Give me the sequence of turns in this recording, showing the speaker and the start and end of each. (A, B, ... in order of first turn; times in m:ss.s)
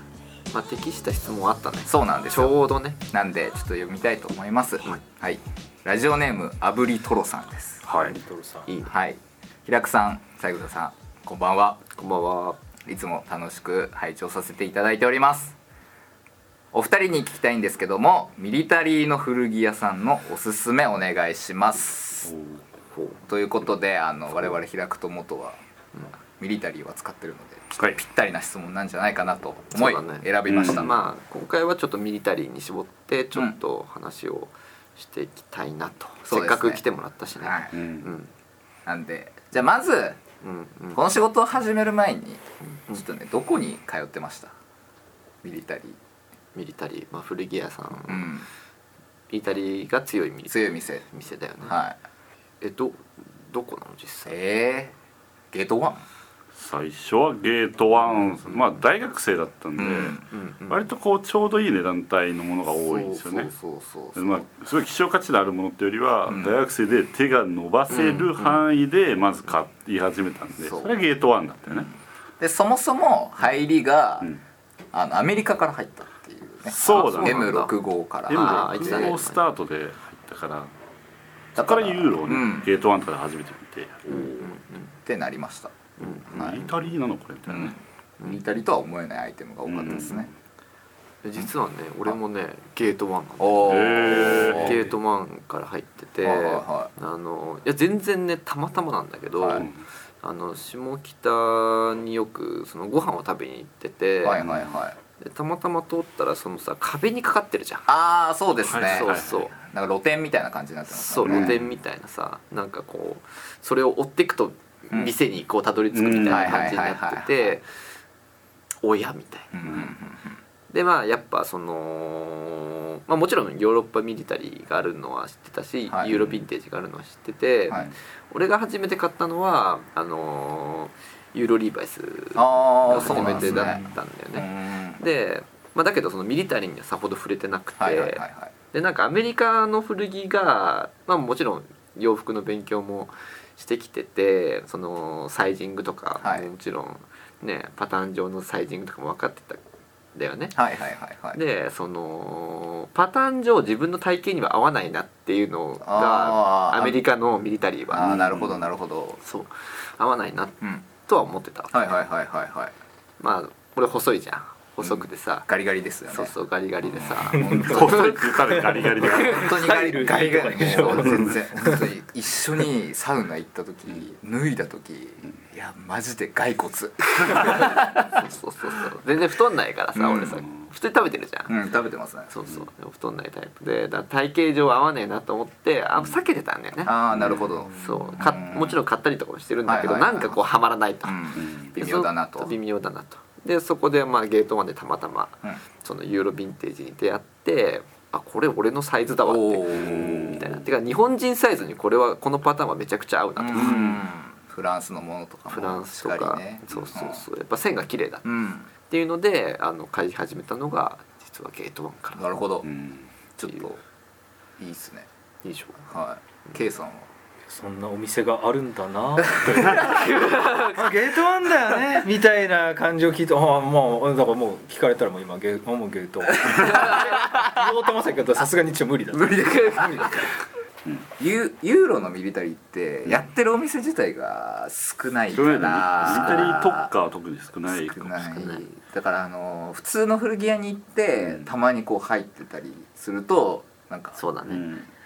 0:00.5-0:03.0 A
0:01.8-0:07.8 B
0:07.8-0:08.2 C
0:08.0-0:08.7 D
0:08.6-0:09.0 A
0:08.8-0:11.8 B
0:12.0-0:12.6 A
0:12.8-0:15.6 B
0:16.7-0:22.3 B
0:22.2-0:22.7 C
0:22.9-0:23.2 A
0:23.2-0:25.6 B
0:26.2-0:31.0 B
0:29.7-0:38.3 A
0:30.5-0:30.9 C
0:36.3-0:36.8 B
0:37.4-0:37.8 B
0:37.7-0:38.1 C
0:38.8-0:40.2 B
0:40.4-0:41.0 A
0:40.9-0:44.5 B
0:42.6-0:43.0 A
0:45.4-0:46.0 B
0:46.5-0:48.3 A
0:48.0-0:48.5 B
0:49.3-0:51.8 A
0:50.5-0:51.0 B
0:51.6-0:52.0 B
0:52.6-0:54.3 A
0:54.2-0:54.9 B
0:55.5-0:56.0 B
0:56.6-1:03.5 C
0:59.8-1:00.2 B
1:00.3-1:00.9 A
1:02.9-1:04.4 B
1:04.1-1:11.9 C
1:06.3-1:06.6 B
1:07.9-1:08.6 A
1:10.6-1:10.9 B
1:12.4-1:14.3 B
1:14.9-1:19.2 B
1:16.7-1:17.5 C
1:16.8-1:17.7 A
1:18.3-1:20.7 C
1:18.3-1:19.4 A
1:21.5-1:24.6 C
1:21.6-1:22.7 B
1:24.1-1:24.9 A
1:25.0-1:26.6 B
1:26.0-1:26.7 A
1:26.2-1:27.8 C
1:27.5-1:30.3 B
1:29.6-1:30.3 C
1:31.2-1:39.7 A
1:33.4-1:34.8 B
1:33.7-1:34.8 C
1:36.2-1:36.9 B
1:39.4-1:39.7 B
1:39.6-1:39.8 C
1:40.2-1:44.4 A
1:44.2-1:45.0 B
1:44.4-1:44.7 C
1:45.2-1:47.9 A
1:47.9-1:51.6 B
1:48.6-1:49.4 C
1:48.9-1:49.5 A
1:50.9-1:57.7 A
1:51.2-1:51.6 C
1:55.9-1:56.8 C
1:56.3-1:57.6 B
1:58.8-1:59.6 A
1:59.5-2:00.4 B
1:59.6-1:59.9 C
2:00.7-2:29.6 A
2:06.1-2:06.4 C
2:12.3-2:15.0 B
2:13.4-2:13.7 D
2:17.8-2:18.5 B
2:26.2-2:26.5 B
2:30.1-2:30.6 A
2:30.5-2:31.4 B
2:31.3-2:38.2 A
2:35.8-2:37.0 B
2:37.9-2:39.2 B
2:38.0-2:38.6 C
2:39.2-2:41.8 A
2:41.7-2:42.7 B
2:43.2-2:45.5 A
2:44.8-2:46.3 B
2:46.1-2:49.5 A
2:46.8-2:48.2 B
2:47.4-2:47.7 D
2:47.4-2:49.6 C
2:48.6-2:51.9 D
2:49.0-2:58.2 B
2:50.8-2:51.4 C
2:57.3-3:01.5 A
3:00.0-3:00.4 B
3:00.2-3:00.7 C
3:01.5-3:02.3 B
3:02.3-3:06.9 A
3:06.8-3:08.8 B
3:07.1-3:07.6 C
3:07.8-3:24.0 A
3:07.8-3:08.2 D
3:09.6-3:10.4 B
3:11.0-3:12.5 B
3:11.4-3:11.8 C
3:19.2-3:20.4 B
3:19.7-3:20.6 C
3:23.4-3:27.2 B
3:23.5-3:24.0 C
3:25.5-3:28.2 A
3:28.2-3:28.7 B
3:28.8-3:32.4 A
3:32.2-3:32.7 B
3:32.6-3:33.1 C
3:33.4-3:33.8 B
3:33.4-3:33.7 A
3:34.6-3:35.1 B
3:35.4-3:35.8 A
3:35.8-3:37.1 B
3:37.5-3:40.0 D
3:39.4-3:40.1 B
3:39.8-3:40.9 A
3:40.7-3:50.2 D
3:46.5-3:47.6 B
3:46.6-3:47.0 A
3:49.1-3:50.2 B
3:49.4-3:50.2 A
3:51.2-3:56.9 B
3:55.3-3:58.5 C
3:56.0-3:56.4 A
3:57.7-4:04.2 B
3:58.3-3:58.6 A
4:01.2-4:01.4 C
4:04.2-4:04.6 A
4:04.5-4:04.9 C